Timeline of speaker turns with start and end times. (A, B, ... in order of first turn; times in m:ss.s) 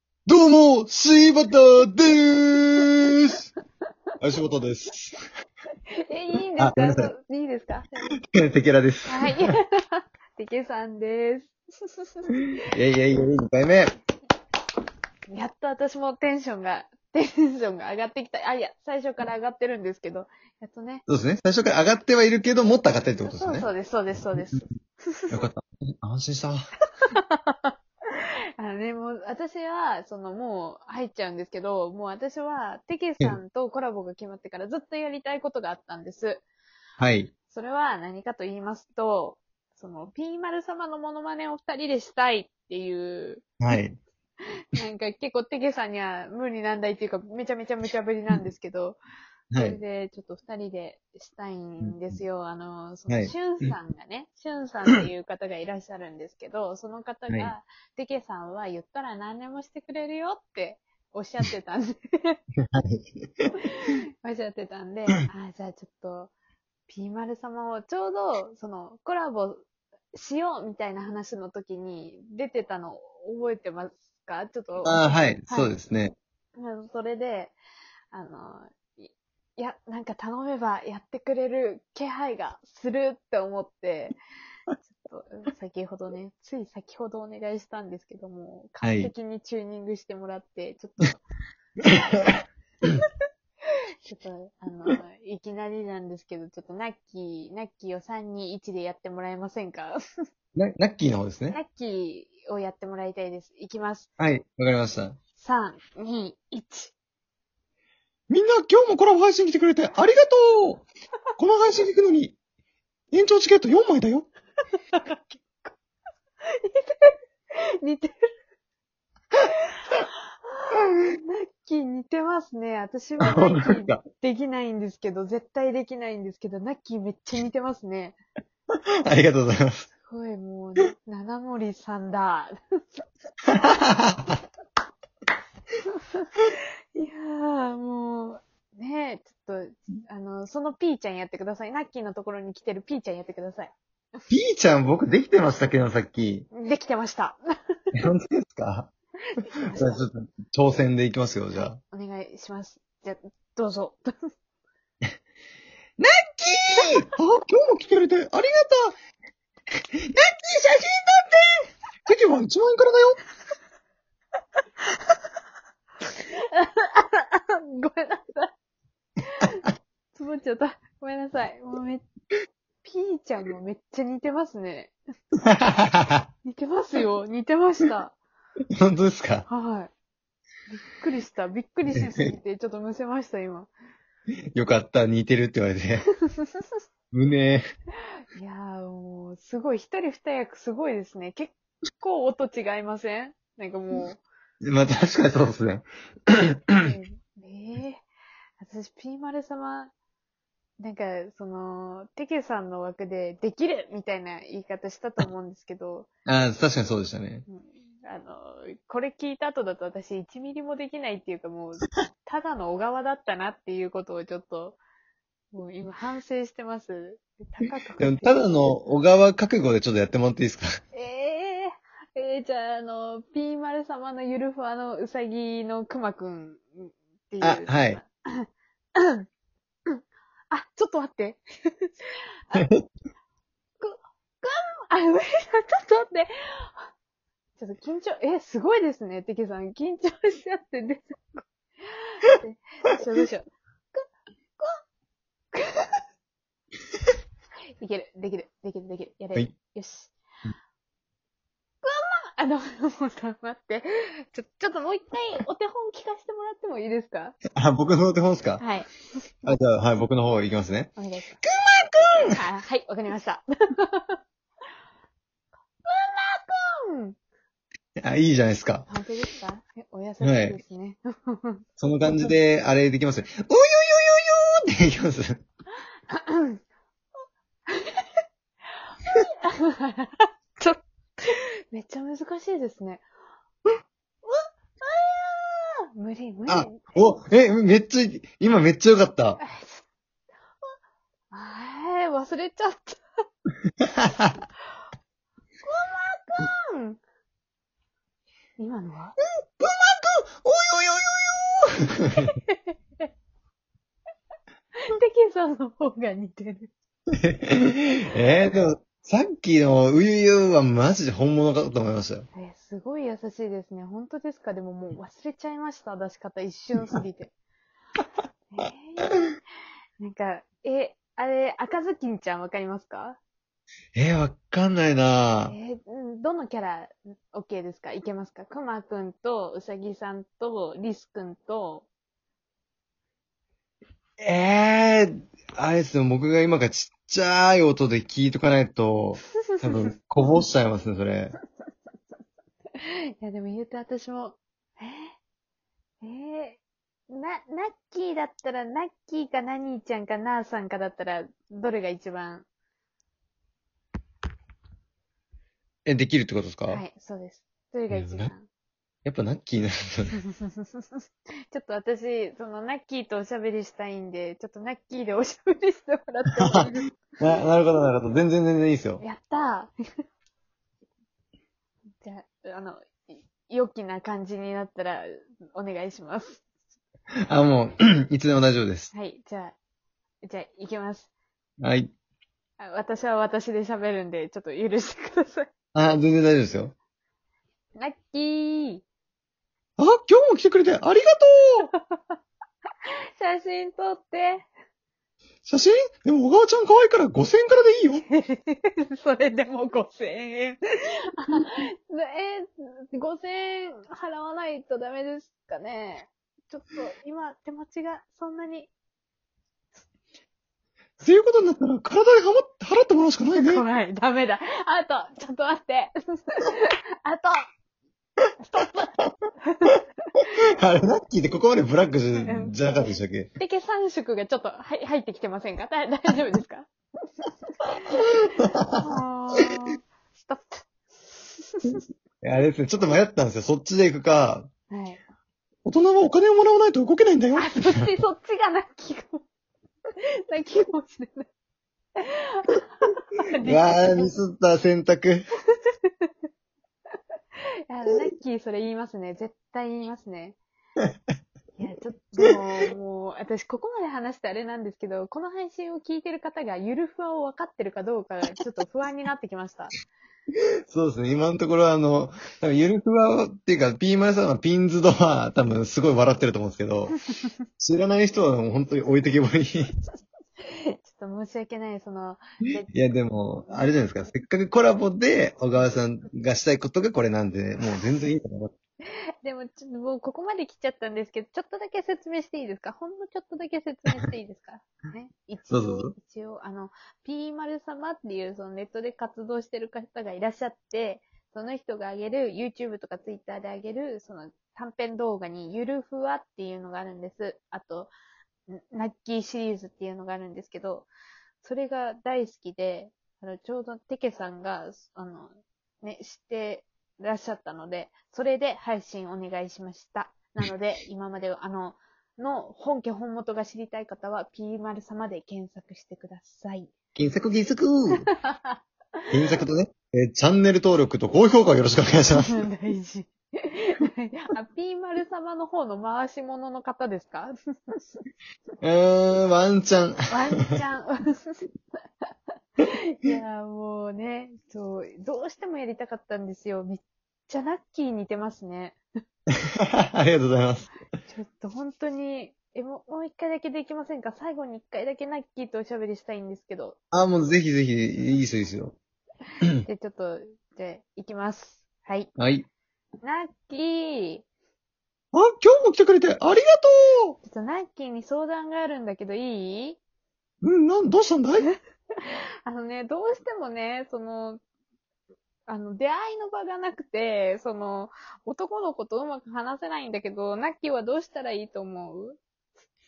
0:00.3-0:03.4 A
0:04.2-0:05.2 A
0:06.0-0:08.1 B
0:06.6-0:07.1 A
0:08.3-0:09.4 A
0:09.1-0:12.4 B
0:12.6-0:13.9 A
0:15.3-0:21.0 B
0:21.1-0:23.7 A
0:23.2-0:25.5 B
0:24.4-0:24.6 A
0:25.3-0:26.7 A
0:27.0-0:36.4 B
0:37.0-0:37.3 A
0:37.5-0:43.4 B
0:43.6-0:44.0 A
0:44.7-0:49.0 B
0:49.5-0:49.8 A
0:49.6-1:02.4 B
0:51.8-0:52.2 A
0:53.1-0:53.3 A
1:02.6-1:03.5 A
1:03.6-1:06.3 B
1:06.9-1:15.7 B
1:14.8-1:16.1 A
1:16.6-1:17.6 B
1:18.1-1:24.2 B
1:24.8-1:31.2 B
1:28.8-1:29.1 A
1:31.8-1:33.0 A
1:34.1-1:40.0 B
1:40.5-1:41.6 A
1:41.5-1:44.1 B
1:44.2-1:45.2 A
1:45.4-1:46.9 B
1:48.3-1:50.8 A
1:51.4-1:52.4 A
1:53.1-1:54.3 A
1:54.7-1:55.7 B
1:56.5-1:57.1 B
1:57.8-1:58.1 B
1:59.5-2:08.2 B
2:03.2-2:04.0 A
2:09.0-2:09.9 A
2:10.0-2:12.5 B
2:13.5-2:14.4 A
2:15.9-2:23.7 B
2:24.3-2:26.5 A
2:26.5-2:27.4 B
2:27.9-2:28.9 A
2:29.2-2:30.0 B
2:29.6-2:31.8 A
2:31.5-2:34.1 B
2:36.0-2:38.9 A
2:39.9-2:43.2 A
2:46.2-2:48.5 B
2:49.3-2:52.0 B
2:52.8-2:54.9 B
2:55.4-2:56.2 A
2:56.4-2:58.1 B
2:58.8-2:59.5 A
2:59.5-2:59.9 B
3:00.7-3:03.7 B
3:01.9-3:02.3 A
3:04.5-3:06.0 A
3:06.4-3:06.7 B
3:07.1-3:07.6 A
3:08.3-3:14.2 B
3:14.6-3:16.9 A
3:16.8-3:18.0 B
3:18.6-3:19.9 B
3:20.8-3:26.1 B
3:26.2-3:27.4 A
3:27.5-3:34.8 B
3:35.5-3:38.5 B
3:38.0-3:40.7 A
3:40.9-3:49.3 B
3:47.4-3:48.0 A
3:49.9-3:52.7 B
3:52.5-3:52.8 A
3:53.8-3:56.9 B
3:57.6-4:04.0 B
4:05.5-4:06.0 B
4:07.8-4:10.1 B
4:11.8-4:17.4 B
4:17.6-4:18.6 A
4:18.6-4:19.0 B
4:19.4-4:20.9 A
4:21.0-4:21.4 B
4:21.4-4:22.4 A
4:22.3-4:24.2 B
4:25.8-4:27.2 B
4:28.0-4:28.9 A
4:28.9-4:31.6 B
4:30.2-4:30.6 A
4:31.8-4:35.4 A
4:36.1-4:36.6 B
4:37.7-4:38.1 B
4:38.7-4:43.0 B
4:44.2-4:46.8 B
4:46.5-4:49.4 A
4:49.4-4:49.9 B
4:51.3-4:53.0 B
4:53.8-4:54.3 A
4:55.6-4:57.0 B
4:58.6-4:59.2 B
4:59.6-5:02.3 A
5:02.2-5:03.1 B
5:04.8-5:06.7 B
5:07.2-5:12.3 A
5:12.3-5:17.3 B
5:18.5-5:19.3 B
5:20.0-5:23.2 B
5:23.9-5:25.6 A
5:25.5-5:31.9 B
5:34.2-5:41.4 A
5:42.7-5:45.1 B
5:46.0-5:52.4 B
5:55.8-5:56.8 A
5:56.7-5:58.5 B
5:57.9-5:58.3 A
5:59.0-6:00.2 A
6:00.3-6:00.9 B
6:01.5-6:07.0 B
6:07.2-6:09.0 A
6:09.0-6:09.7 B
6:12.0-6:16.4 B
6:17.3-6:18.9 A
6:18.9-6:19.5 B
6:20.2-6:21.1 B
6:21.6-6:21.9 A
6:22.6-6:25.5 B
6:25.7-6:26.7 A
6:27.8-6:28.8 B
6:29.8-6:31.7 A
6:31.7-6:32.2 B
6:33.2-6:34.5 B
6:35.4-6:38.0 A
6:38.1-6:48.7 B
6:51.0-6:53.6 A
6:53.3-6:57.5 B
6:58.4-7:00.4 B
7:00.3-7:03.3 A
7:02.2-7:06.7 B
7:07.8-7:11.8 B
7:08.2-7:08.9 A
7:12.2-7:14.5 A
7:14.7-7:15.0 B
7:15.6-7:17.9 A
7:17.3-7:19.2 B
7:20.0-7:21.3 B
7:22.0-7:24.1 B
7:23.4-7:25.2 A
7:25.6-7:26.1 B
7:27.7-7:30.4 B
7:31.6-7:39.8 B
7:40.7-7:47.0 A
7:47.6-7:49.7 A
7:50.4-7:52.7 B
7:52.7-7:58.5 A
7:59.2-8:17.9 B
8:05.5-8:05.9 A
8:18.5-8:20.9 B
8:21.4-8:36.7 B
8:36.9-8:38.1 A
8:38.1-8:39.1 B
8:39.1-8:42.4 A
8:42.2-8:47.8 B
8:48.6-8:50.1 A
8:50.1-8:51.5 B
8:52.6-8:58.8 B
8:59.6-9:00.7 A
9:01.1-9:06.8 B
9:06.9-9:08.8 A
9:09.6-9:12.1 B
9:12.2-9:12.5 A
9:13.0-9:14.2 B
9:15.1-9:17.2 A
9:17.2-9:19.8 B
9:20.4-9:21.5 A
9:21.5-9:24.4 B
9:25.5-9:32.2 B